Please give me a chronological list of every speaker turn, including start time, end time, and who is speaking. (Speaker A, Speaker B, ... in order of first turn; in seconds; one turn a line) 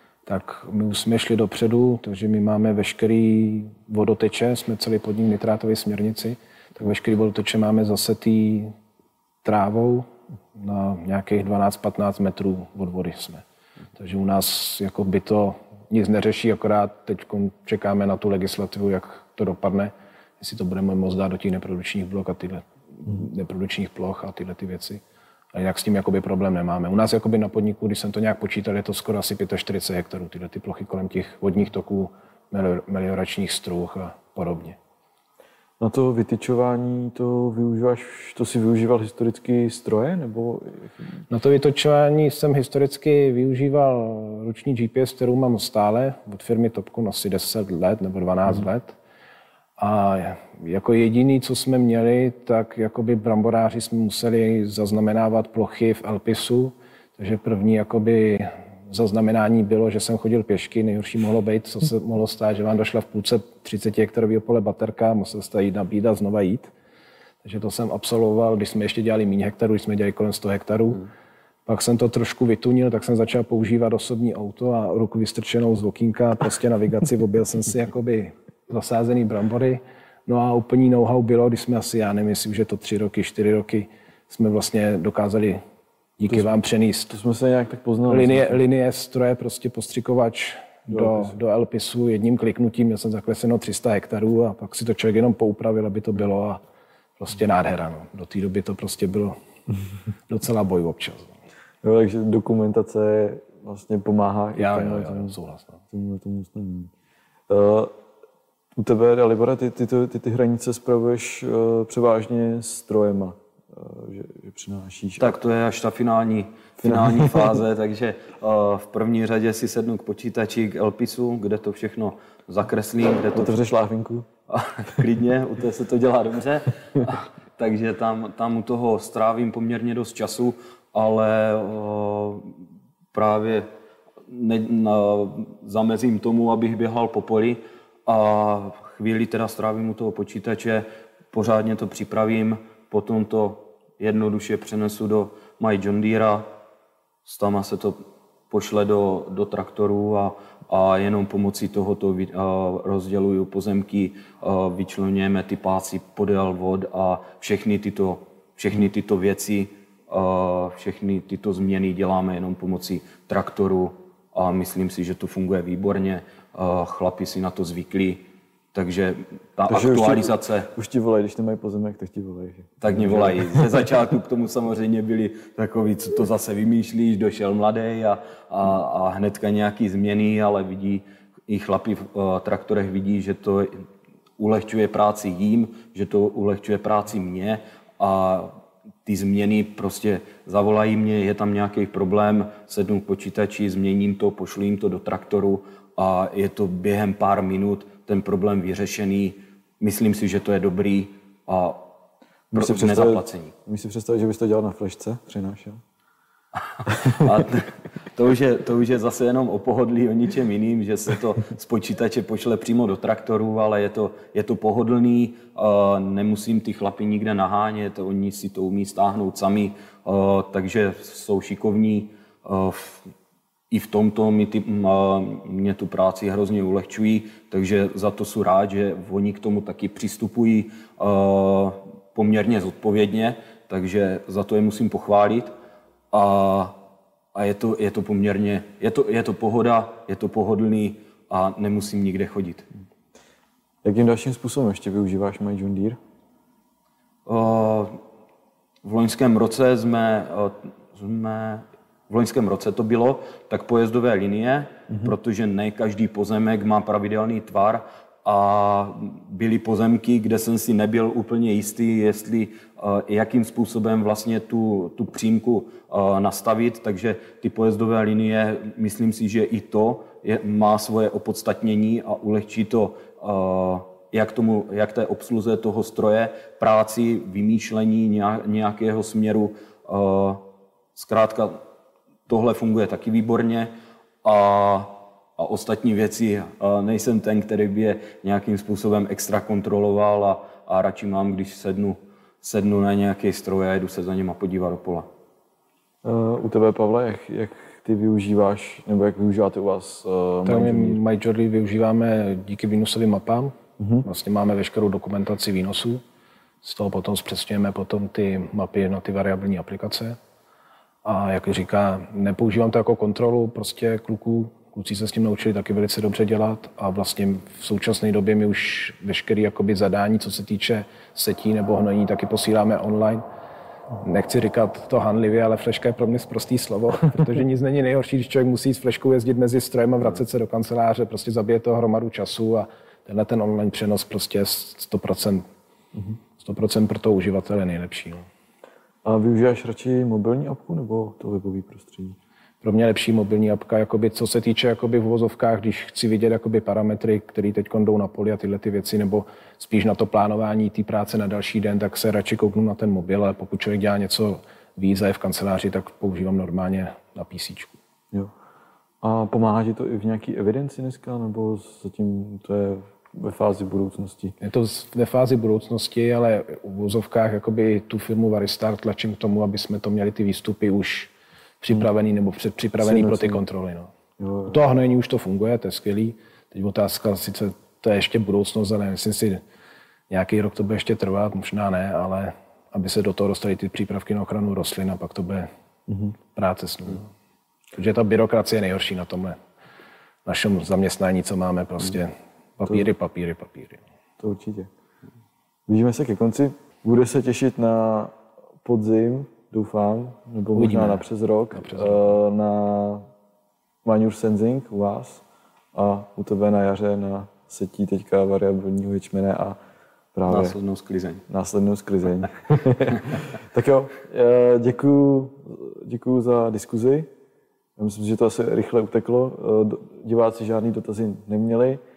Speaker A: 0.3-8.7
Speaker A: 9.4-13.4
Speaker A: 14.0-25.0
Speaker A: 25.5-34.8
Speaker B: 35.8-41.0
Speaker A: 41.3-49.0
Speaker A: 49.8-66.7
Speaker A: 67.4-71.1
Speaker A: 71.7-85.6
Speaker A: 86.2-87.1
Speaker B: 86.3-86.5
Speaker B: 87.1-88.6
Speaker A: 88.1-96.6
Speaker B: 90.9-91.4
Speaker A: 97.2-99.4
Speaker A: 100.3-101.4
Speaker B: 101.8-105.4
Speaker A: 104.6-105.8
Speaker B: 105.9-106.9
Speaker B: 107.5-107.9
Speaker B: 108.8-115.4
Speaker C: 115.2-123.5
Speaker B: 116.8-117.6
Speaker B: 123.3-124.3
Speaker C: 124.5-132.5
Speaker C: 133.1-133.7
Speaker C: 134.3-146.5
Speaker C: 147.2-148.0
Speaker C: 148.5-168.2
Speaker C: 168.7-170.7
Speaker B: 169.7-173.7
Speaker C: 172.8-183.8
Speaker C: 184.4-201.8
Speaker B: 202.5-205.8
Speaker C: 202.5-203.5
Speaker B: 206.9-207.3
Speaker C: 207.1-223.1
Speaker C: 223.7-235.5
Speaker C: 236.1-236.8
Speaker C: 237.3-242.7
Speaker B: 243.8-246.0
Speaker C: 247.3-248.0
Speaker C: 248.8-280.4
Speaker C: 280.9-281.6
Speaker C: 282.3-283.7
Speaker C: 284.2-295.1
Speaker B: 296.0-301.0
Speaker A: 300.5-306.0
Speaker B: 303.8-304.1
Speaker A: 306.6-310.2
Speaker A: 311.0-323.2
Speaker A: 324.0-335.4
Speaker A: 336.4-338.3
Speaker B: 339.1-342.2
Speaker A: 342.6-357.8
Speaker B: 359.0-364.4
Speaker A: 364.4-373.9
Speaker B: 372.8-373.4
Speaker B: 374.2-374.6
Speaker A: 374.5-379.4
Speaker A: 380.1-385.5
Speaker B: 385.9-386.2
Speaker A: 386.3-387.1
Speaker A: 387.7-389.4
Speaker A: 390.2-393.8
Speaker B: 394.2-394.7
Speaker B: 395.7-403.1
Speaker A: 400.6-402.1
Speaker B: 403.8-405.2
Speaker B: 405.7-409.6
Speaker B: 410.1-410.6
Speaker C: 410.3-411.2
Speaker B: 411.3-417.1
Speaker B: 417.8-421.8